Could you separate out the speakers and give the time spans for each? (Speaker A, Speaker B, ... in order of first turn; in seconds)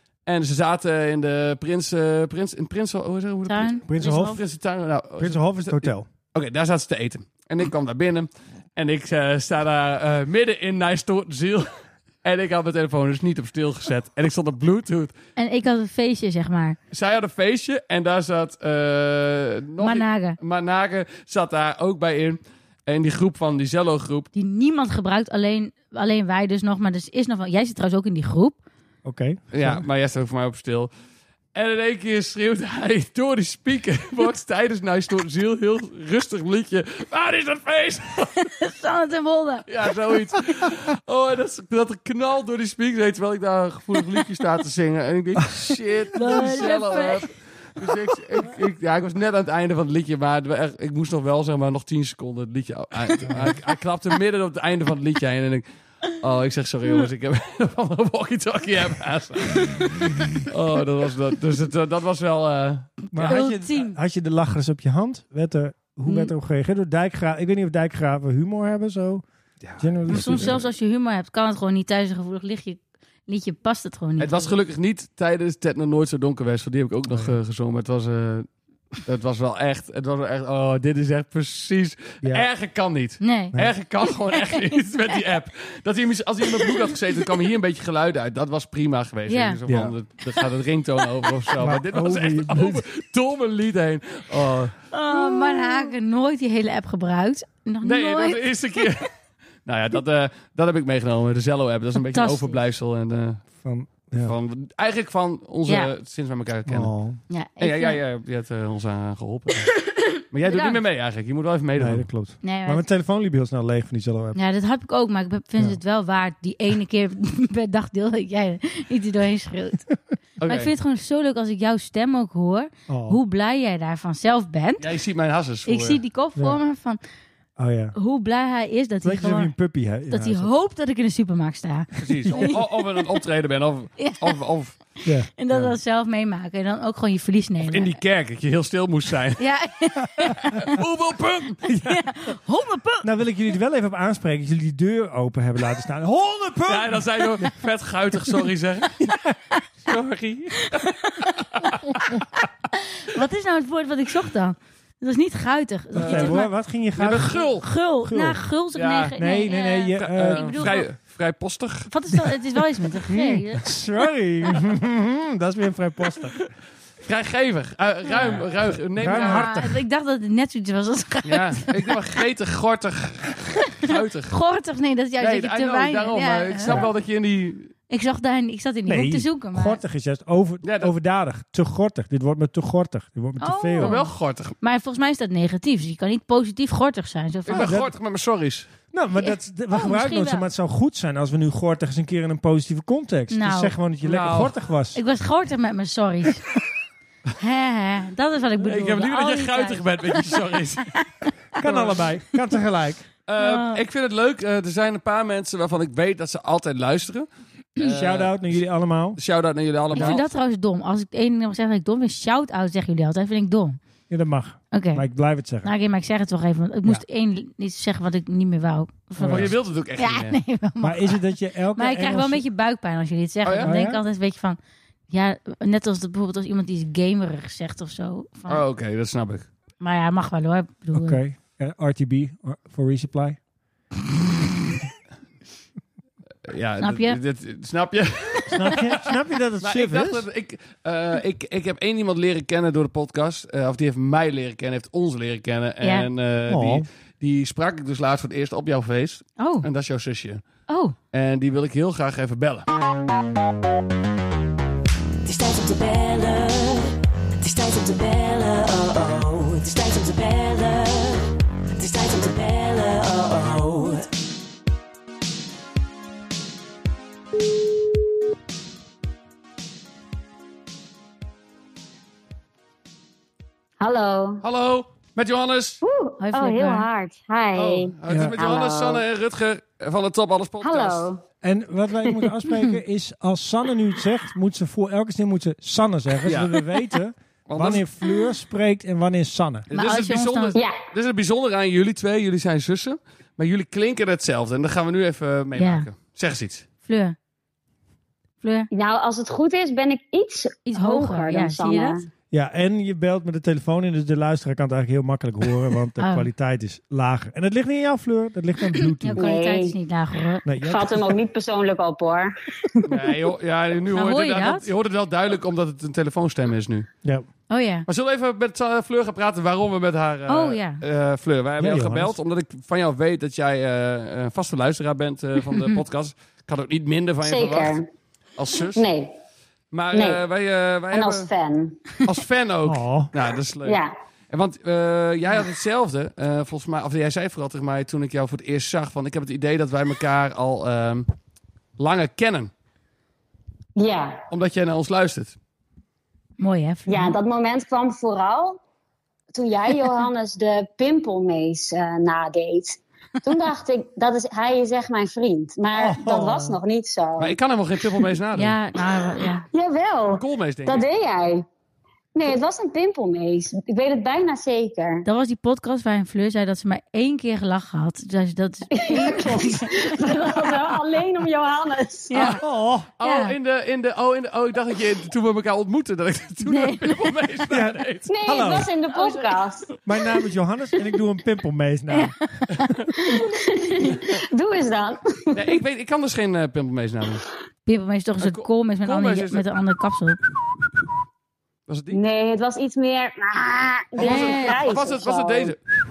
Speaker A: 0.2-11.7, 12.2-15.1, 16.9-24.3, 29.5-30.9, 31.5-38.5, 39.7-63.3, 69.6-70.6, 74.2-95.9, 97.8-99.1, 99.6-103.4, 104.2-106.9, 107.6-109.7, 110.3-112.1, 120.4-120.7, 124.8-126.0, 132.0-134.8, 137.7-139.4, 140.5-141.7, 146.7-149.2, 149.8-152.2, 155.9-156.4, 156.9-157.7, 158.7-159.1, 159.9-161.9, 167.0-169.5, 171.2-174.3, 175.2-177.7, 180.6-180.9, 183.8-184.5, 187.5-188.7, 194.0-194.5, 198.6-200.9, 201.6-202.0, 203.3-208.6, 209.2-210.2, 219.2-220.4, 223.4-223.8, 228.5-229.5, 236.5-239.0, 239.6-250.5, 251.1-252.7, 274.4-275.8, 277.5-281.1, 286.2-286.6, 287.5-287.8, 289.7-296.6, 312.9-316.9, 317.9-327.8, 328.4-328.8, 329.7-331.3, 332.0-333.8, 334.3-341.1, 341.8-342.5, 344.3-345.4, 357.2-358.6, 360.1-360.8, 373.0-378.1, 385.3-387.2, 388.2-389.4, 391.7-392.0, 394.0-395.6
Speaker B: 3.5-3.9, 15.4-16.8, 19.8-20.4, 24.3-28.6, 38.4-39.7, 46.1-47.3, 63.2-64.0, 66.1-66.3, 70.1-74.5, 83.2-83.5, 89.3-89.6, 94.9-98.4, 102.1-102.6, 105.7-105.9, 107.3-108.0, 110.5-110.8, 112.4-112.8, 114.3-119.9, 120.4-124.8, 125.7-127.0, 128.0-129.5, 130.1-132.8, 134.0-134.3, 135.4-137.9, 139.4-140.7, 141.7-143.1, 150.8-151.7, 152.8-156.5, 157.6-160.9, 161.9-163.7, 168.1-168.4, 169.0-171.9, 173.9-176.9, 177.9-179.8, 183.4-187.8, 189.2-190.4, 193.3-193.8, 194.9-196.4, 197.4-200.4, 203.4-203.8, 209.9-213.8, 214.7-215.0, 215.6-221.2, 221.7-224.6, 225.1-228.6, 229.8-231.2, 236.8-237.2, 245.8-246.1, 249.4-249.7, 250.7-250.9, 276.2-276.9, 289.7-290.6, 295.6-295.9, 296.8-297.1, 298.4-298.7, 300.7-302.0, 306.0-306.3, 308.8-310.4, 313.9-314.7, 317.5-317.9, 320.3-320.8, 325.5-325.8, 346.4-347.1, 358.3-359.4, 365.0-369.9, 372.1-372.4, 373.0-373.4, 376.4-377.3, 378.9-379.3, 381.9-383.2, 387.6-390.2, 394.0-394.5
Speaker C: 3.9-4.4, 5.2-6.1, 29.0-29.8, 53.3-53.5, 63.1-69.2, 69.8-70.6, 82.2-82.5, 89.7-89.9, 91.6-92.8, 103.6-104.3, 106.7-107.2, 111.8-114.4, 122.9-123.2, 126.3-126.6, 127.6-128.0, 129.0-130.5, 135.0-135.8, 143.0-147.7, 156.0-158.4, 159.2-160.7, 163.1-166.4, 168.2-169.8, 178.9-183.9, 187.6-187.9, 188.9-195.0, 201.6-203.0, 207.8-209.2, 214.1-215.7, 219.2-219.5, 220.8-222.4, 223.6-224.0, 230.9-233.4, 238.5-240.2, 246.5-246.9, 278.1-278.4, 281.4-289.7, 302.3-309.2, 310.4-311.1, 321.6-322.1, 332.6-333.1, 355.7-356.6, 372.2-372.9, 377.5-378.7, 379.8-382.3
Speaker D: 255.2-264.1
Speaker E: 273.8-274.4, 275.8-279.0, 280.6-281.2, 298.7-302.1, 309.1-309.8, 310.6-313.0, 327.2-327.9, 328.8-329.2, 329.9-330.2, 330.9-331.9, 333.6-333.9, 343.8-344.2, 346.9-348.6, 349.3-357.4, 359.5-361.4, 362.1-365.0, 368.7-372.4, 378.1-379.7, 383.1-385.5, 391.9-395.6